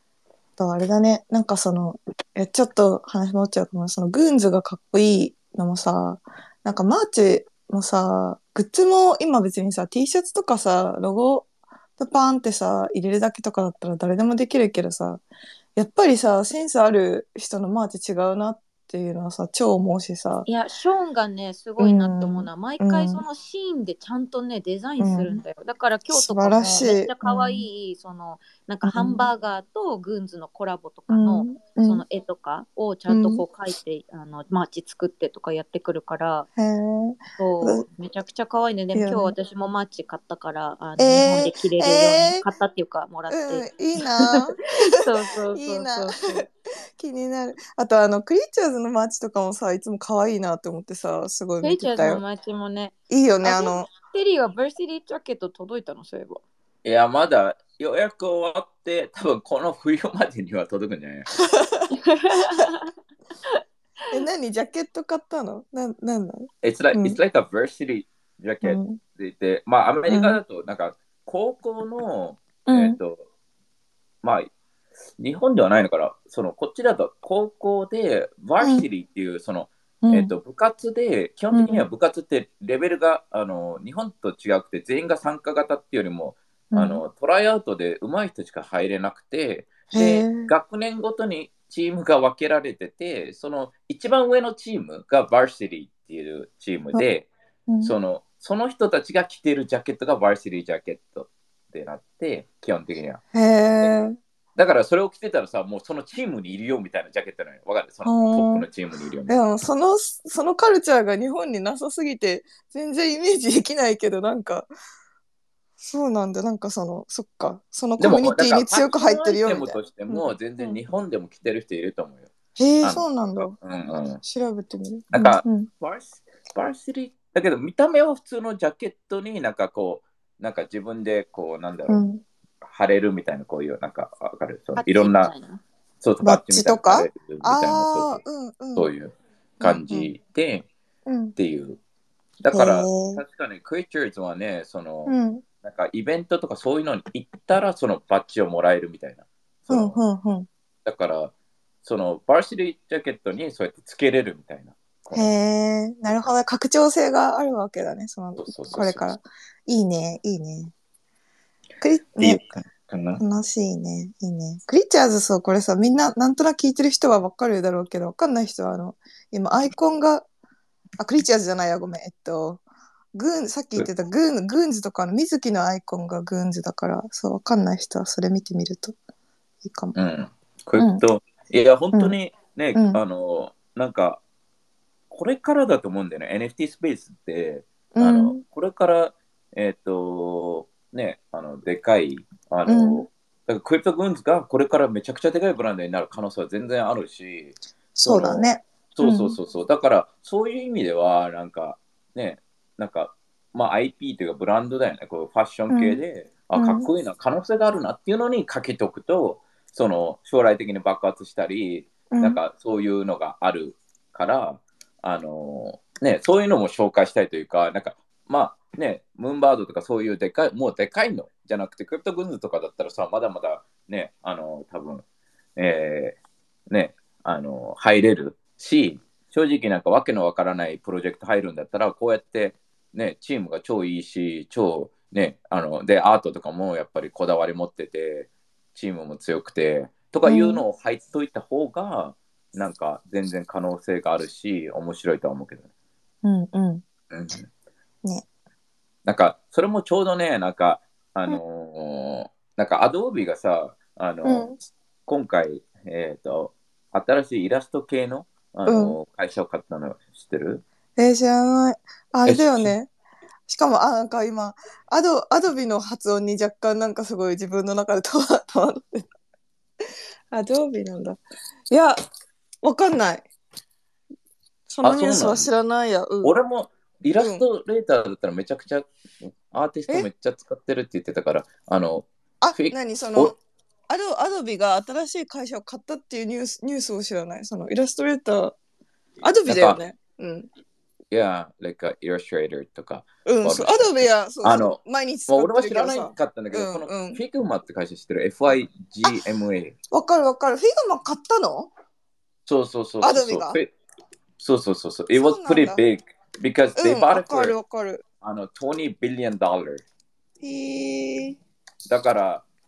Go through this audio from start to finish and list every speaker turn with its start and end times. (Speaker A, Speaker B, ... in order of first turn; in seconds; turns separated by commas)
Speaker A: 0.6-15.2, Speaker A: 15.8-20.4, Speaker B: 20.4-36.5, Speaker A: 21.8-23.2, Speaker A: 25.0-25.4, Speaker A: 26.1-27.6, Speaker A: 28.8-29.2, Speaker A: 31.1-32.0, Speaker A: 33.1-33.4, Speaker A: 36.5-37.8, Speaker B: 37.4-46.4, Speaker A: 38.9-39.3, Speaker A: 41.0-42.4, Speaker A: 43.3-44.6, Speaker A: 45.5-52.2, Speaker B: 51.6-56.4, Speaker A: 53.1-53.9, Speaker C: 56.8-61.3, Speaker A: 61.5-61.9, Speaker B: 62.0-62.9, Speaker A: 64.1-67.2, Speaker C: 66.6-73.2, Speaker A: 68.6-69.0, Speaker A: 70.0-70.4, Speaker A: 72.7-73.0, Speaker C: 74.2-74.5, Speaker C: 75.2-97.3, Speaker A: 78.6-78.8, Speaker A: 80.0-80.3, Speaker A: 81.5-81.8, Speaker A: 86.7-87.0, Speaker A: 89.9-90.5, Speaker A: 97.7-97.9, Speaker C: 97.8-103.2, Speaker A: 103.3-104.2, Speaker C: 104.5-109.4, Speaker A: 108.0-108.7, Speaker A: 109.3-114.7, Speaker A: 115.8-120.8, Speaker C: 118.0-122.3, Speaker A: 122.5-123.5, Speaker C: 122.8-124.2, Speaker A: 124.2-125.7, Speaker C: 125.1-132.0, Speaker A: 131.9-132.2, Speaker C: 132.6-135.3, Speaker B: 134.8-135.6, Speaker C: 136.0-138.2, Speaker A: 136.2-138.9, Speaker C: 138.7-140.7, Speaker A: 139.6-140.1, Speaker A: 141.1-141.3, Speaker C: 141.3-141.8, Speaker C: 142.4-150.0, Speaker A: 142.5-143.2, Speaker A: 145.1-145.4, Speaker A: 149.7-150.5, Speaker C: 150.8-155.3, Speaker A: 155.1-160.7, Speaker C: 156.1-156.3, Speaker C: 158.4-159.1, Speaker A: 161.8-162.4, Speaker C: 162.2-163.2, Speaker A: 163.2-170.2, Speaker A: 171.0-172.6, Speaker A: 173.1-178.9, Speaker A: 179.6-179.9, Speaker C: 179.9-184.2, Speaker A: 182.7-183.0, Speaker C: 185.1-225.0, Speaker A: 187.9-188.4, Speaker A: 192.7-193.1, Speaker A: 197.9-199.4, Speaker A: 205.7-206.0, Speaker A: 206.5-206.9, Speaker A: 212.1-212.4, Speaker C: 225.6-226.2, Speaker C: 226.7-245.7, Speaker A: 240.2-240.6, Speaker A: 246.2-246.8, Speaker C: 247.1-247.5, Speaker C: 249.1-254.5, Speaker A: 254.2-254.5, Speaker C: 255.1-260.6, Speaker A: 258.7-258.9, Speaker A: 261.0-262.9, Speaker C: 262.2-262.7, Speaker A: 263.5-269.1, Speaker A: 270.3-272.0, Speaker A: 272.6-273.2, Speaker A: 274.7-276.3, Speaker C: 274.8-275.5, Speaker C: 276.2-278.9, Speaker A: 277.2-277.4, Speaker C: 279.5-283.3, Speaker A: 282.4-283.4, Speaker A: 283.9-288.6, Speaker A: 289.2-290.5, Speaker C: 289.4-289.8, Speaker C: 291.1-294.8, Speaker A: 293.2-297.2, Speaker C: 295.3-299.7, Speaker A: 299.9-301.7, Speaker C: 302.5-303.7, Speaker A: 303.0-303.6, Speaker C: 304.4-307.5, Speaker A: 305.1-305.8, Speaker A: 306.8-308.0, Speaker C: 308.2-309.8, Speaker A: 310.4-311.4, Speaker C: 311.9-312.4